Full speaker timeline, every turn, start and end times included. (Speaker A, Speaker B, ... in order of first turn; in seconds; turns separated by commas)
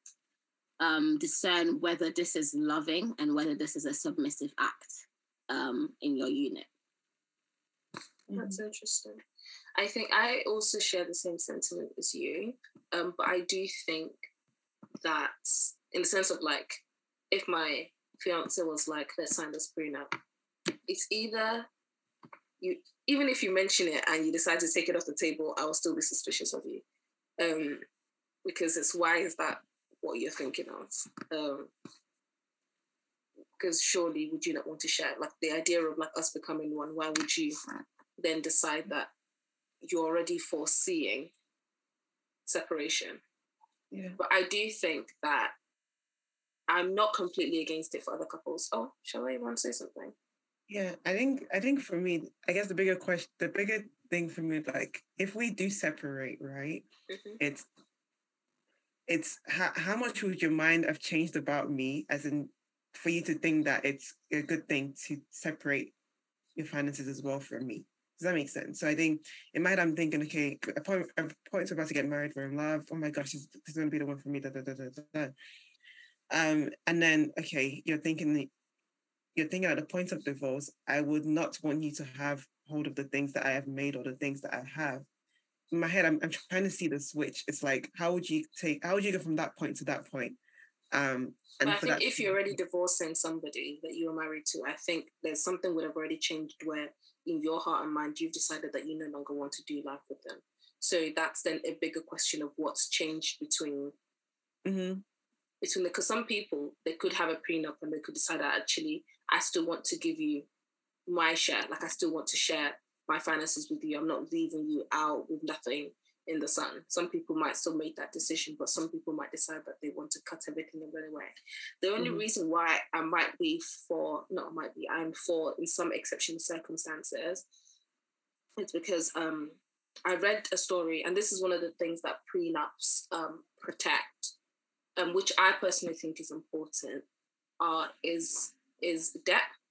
Speaker A: 0.8-6.7, Speaker B: 8.3-8.6, Speaker C: 8.3-9.2, Speaker C: 9.8-14.2, Speaker C: 15.0-20.1, Speaker C: 20.9-21.7, Speaker C: 22.6-26.8, Speaker C: 27.4-27.8, Speaker C: 28.4-31.7, Speaker C: 33.6-37.6, Speaker C: 38.2-39.1, Speaker C: 39.8-41.3, Speaker C: 42.5-43.2, Speaker B: 43.9-44.2, Speaker C: 44.2-45.5, Speaker C: 46.7-50.1, Speaker B: 50.7-56.8, Speaker C: 57.1-57.4, Speaker B: 57.4-57.6, Speaker B: 59.1-65.9, Speaker B: 66.5-75.3, Speaker B: 76.3-78.5, Speaker B: 79.3-85.0, Speaker B: 85.7-90.4, Speaker B: 90.9-92.5, Speaker C: 91.6-103.9, Speaker B: 104.6-105.0, Speaker C: 105.6-110.5, Speaker C: 111.1-127.4, Speaker B: 122.0-122.2, Speaker C: 128.6-134.3, Speaker C: 135.0-137.1, Speaker C: 137.6-139.5